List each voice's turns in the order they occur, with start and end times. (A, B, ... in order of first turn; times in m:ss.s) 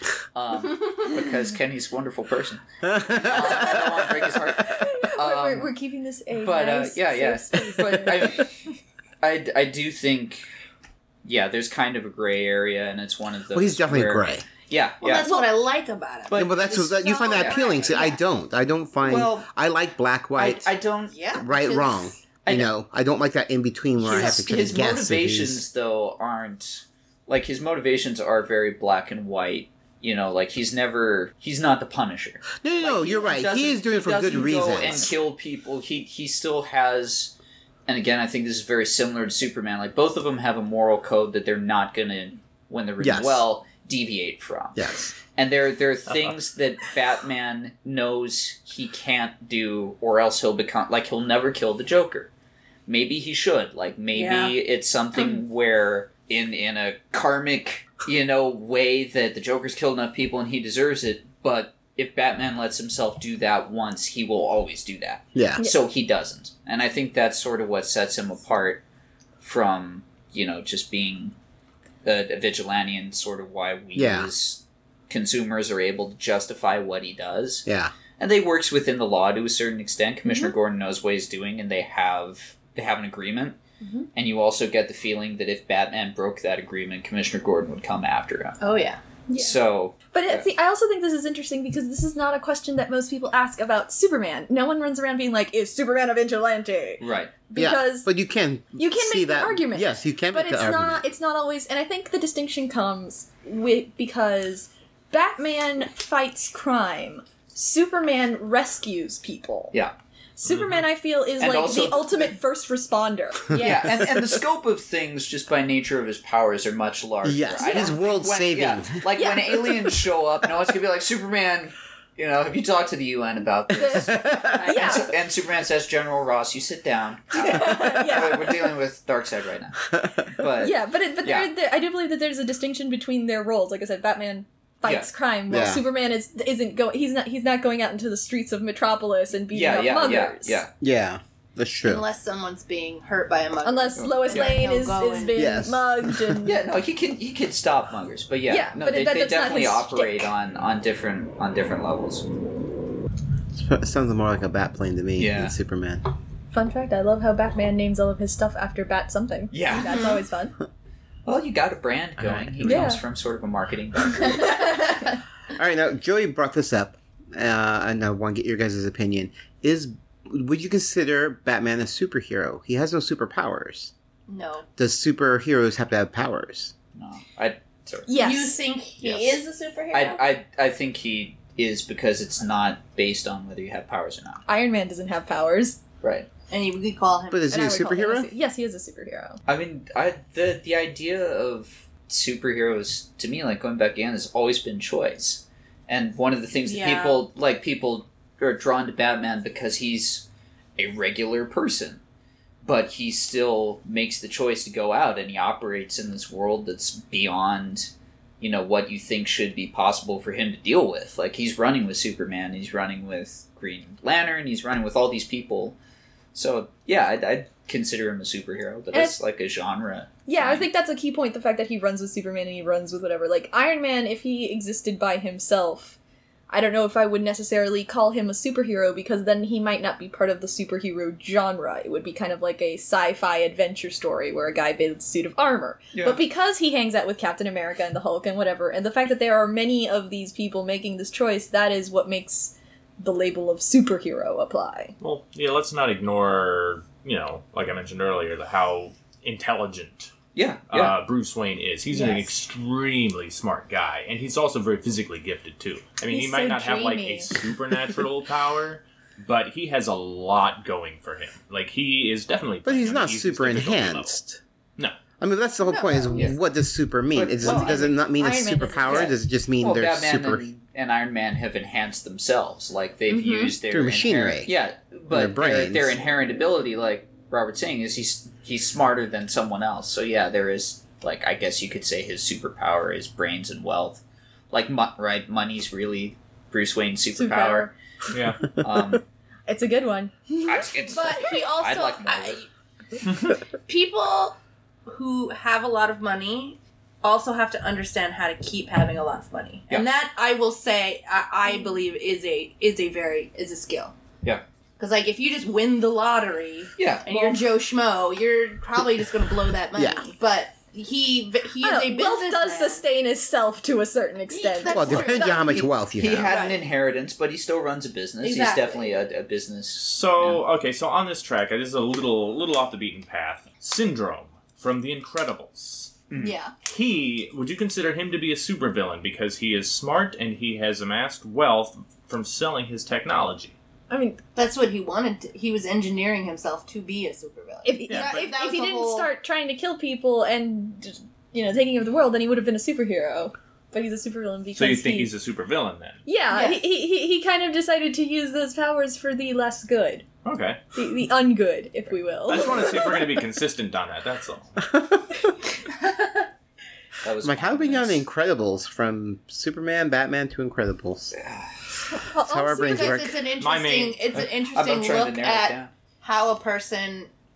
0:00.3-0:05.7 A
0:02.8-0:04.1 B
0:04.6-0:08.4 C
0:06.4-0:08.6 A
0:09.2-0:10.4 A
0:11.2-0:15.3 A
0:13.5-0:14.5 B
0:15.0-0:18.2 D
0:16.3-0:16.8 A
0:16.3-0:20.7 B
0:17.3-0:17.8 A
0:19.0-0:19.5 A
0:20.4-0:21.1 A
0:21.1-0:22.1 D
0:21.3-0:25.6 B
0:22.4-0:22.7 A
0:24.0-0:37.4 A
0:24.1-0:24.4 D
0:32.6-0:35.2 B
0:37.9-0:52.3 A
0:43.0-0:43.4 B
0:44.8-0:45.2 B
0:52.9-1:08.8 A
0:54.1-0:54.5 D
1:05.4-1:05.6 B
1:09.4-1:11.4 A
1:12.0-1:17.7 A
1:14.0-1:14.3 B
1:17.7-1:17.9 B
1:18.2-1:23.6 A
1:23.8-1:24.1 D
1:24.2-1:28.6 A
1:28.6-1:29.0 D
1:29.3-1:29.6 C
1:29.4-1:30.5 A
1:30.1-1:38.1 C
1:37.0-1:37.4 A
1:37.6-1:41.0 B
1:38.8-1:49.8 C
1:50.4-1:53.8 C
1:50.5-1:50.8 E
1:51.4-1:52.4 A
1:53.5-2:11.5 A
1:57.2-1:59.0 B
1:57.6-1:57.9 C
1:59.2-1:59.7 C
2:03.8-2:05.1 C
2:03.8-2:04.6 B
2:04.6-2:05.0 D
2:07.3-2:08.6 C
2:09.9-2:10.3 B
2:10.6-2:20.6 C
2:15.5-2:15.8 B
2:19.5-2:20.7 A
2:20.8-2:22.0 B
2:21.8-2:25.4 D
2:23.6-2:26.6 C
2:24.0-2:24.6 A
2:25.4-2:26.4 B
2:26.4-2:32.3 A
2:28.5-2:30.3 C
2:33.5-2:36.0 B
2:35.2-2:35.6 A
2:36.5-2:40.6 C
2:39.5-2:40.1 A
2:39.7-2:40.2 D
2:41.3-2:44.6 A
2:42.2-2:42.8 B
2:42.6-2:43.0 C
2:45.5-2:53.9 B
2:54.3-2:54.7 D
2:54.8-2:56.7 B
2:57.0-2:58.3 A
2:58.1-2:58.6 C
2:58.2-3:00.2 D
2:59.0-2:59.4 A
2:59.9-3:04.4 A
3:04.5-3:05.8 C
3:06.0-3:06.3 A
3:06.5-3:07.5 D
3:07.3-3:08.3 B
3:07.5-3:09.4 C
3:09.5-3:20.3 A
3:16.7-3:17.2 D
3:20.8-3:22.0 A
3:22.6-3:35.8 A
3:36.3-3:40.7 A
3:40.3-3:46.0 C
3:46.5-4:04.9 C
3:55.9-3:56.2 A
4:05.0-4:10.1 E
4:10.4-4:11.0 A
4:10.7-4:24.2 E
4:11.9-4:12.3 C
4:16.1-4:17.4 C
4:22.6-4:24.4 B
4:25.2-4:30.4 B
4:25.6-4:26.3 D
4:27.1-4:27.9 A
4:27.5-4:29.1 C
4:29.6-4:47.7 A
4:33.1-4:33.5 C
4:33.7-4:34.5 B
4:35.1-4:36.0 B
4:47.2-4:47.7 C
4:48.1-4:48.6 E
4:48.5-4:49.0 A
4:49.5-4:50.7 C
4:50.5-4:52.4 A
4:50.9-4:52.5 D
4:53.1-4:53.3 A
4:53.7-4:54.4 D
4:54.9-5:03.9 D
5:04.8-5:12.8 D
5:06.8-5:07.4 A
5:09.7-5:10.1 B
5:11.6-5:15.1 C
5:14.3-5:15.5 D
5:14.7-5:16.4 B
5:15.2-5:20.4 A
5:16.2-5:16.6 D
5:18.2-5:19.0 D
5:19.8-5:26.0 E
5:26.1-5:26.4 A
5:26.2-5:26.5 D
5:26.6-5:33.6 E
5:33.9-5:34.2 C
5:34.4-5:39.1 D
5:37.6-5:45.1 C
5:37.9-5:38.3 E
5:44.6-5:46.0 E
5:46.0-5:50.1 C
5:46.3-5:46.6 D
5:50.2-5:50.6 E
5:50.7-5:52.8 C
5:52.3-5:54.6 E
5:54.8-5:55.2 B
5:55.8-5:56.2 D
5:57.0-5:58.0 A
5:57.2-6:01.2 B
6:01.1-6:01.5 A
6:02.0-6:03.0 C
6:02.2-6:03.2 B
6:02.6-6:07.1 D
6:03.4-6:04.3 E
6:04.4-6:05.7 A